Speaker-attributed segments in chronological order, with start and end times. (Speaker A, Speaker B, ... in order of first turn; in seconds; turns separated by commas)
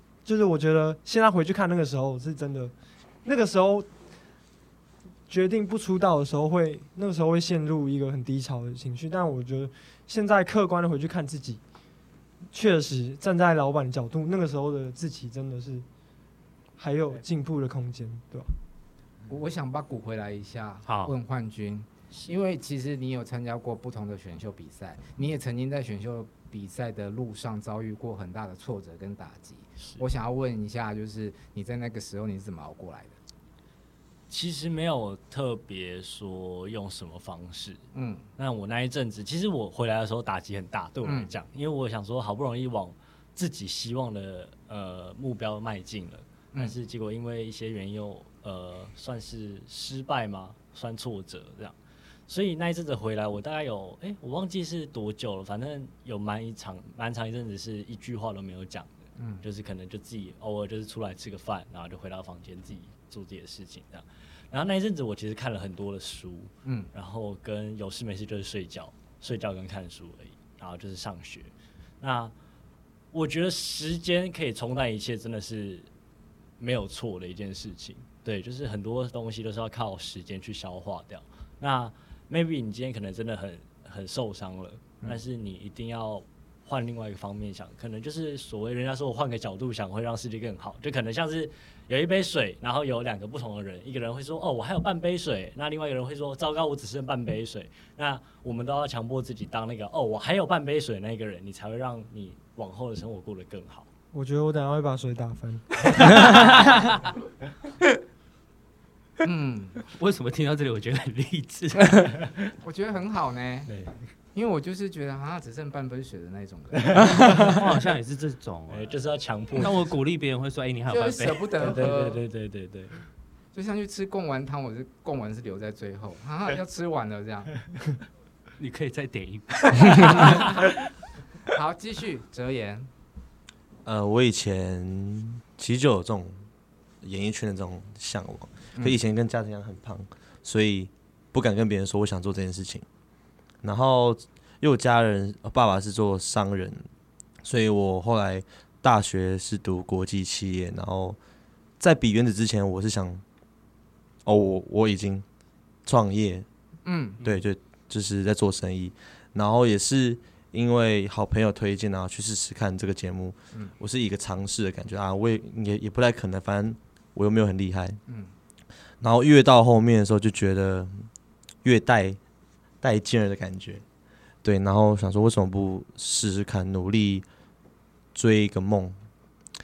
Speaker A: 0.2-2.7, Speaker A: 3.2-3.9, Speaker A: 5.3-11.6, Speaker A: 12.5-15.8, Speaker A: 16.8-18.5, Speaker B: 19.3-33.2, Speaker C: 20.9-21.1, Speaker D: 34.3-37.8, Speaker B: 37.9-38.3, Speaker D: 38.4-51.8, Speaker B: 41.0-41.3, Speaker D: 52.3-58.9, Speaker B: 59.2-59.5, Speaker D: 59.4-72.3, Speaker B: 66.6-66.9, Speaker D: 73.1-75.9, Speaker D: 76.6-103.9, Speaker A: 104.1-106.1, Speaker B: 109.2-109.8, Speaker C: 109.9-112.3, Speaker B: 112.6-113.7, Speaker B: 114.3-117.5, Speaker C: 117.3-118.9, Speaker D: 118.7-119.8, Speaker C: 119.5-121.6, Speaker B: 120.9-122.2, Speaker D: 121.6-123.0, Speaker B: 123.5-127.5, Speaker C: 128.6-130.7, Speaker B: 131.5-132.9, Speaker E: 133.8-136.4, Speaker E: 137.0-142.8, Speaker E: 143.6-146.8, Speaker E: 147.4-151.2, Speaker E: 151.8-153.2, Speaker E: 154.2-155.2, Speaker E: 155.9-156.5, Speaker B: 156.8-157.2, Speaker E: 157.2-168.0, Speaker B: 168.1-168.3, Speaker E: 169.0-171.1, Speaker E: 171.6-172.2, Speaker E: 172.8-173.8, Speaker E: 174.4-177.2, Speaker E: 178.2-179.0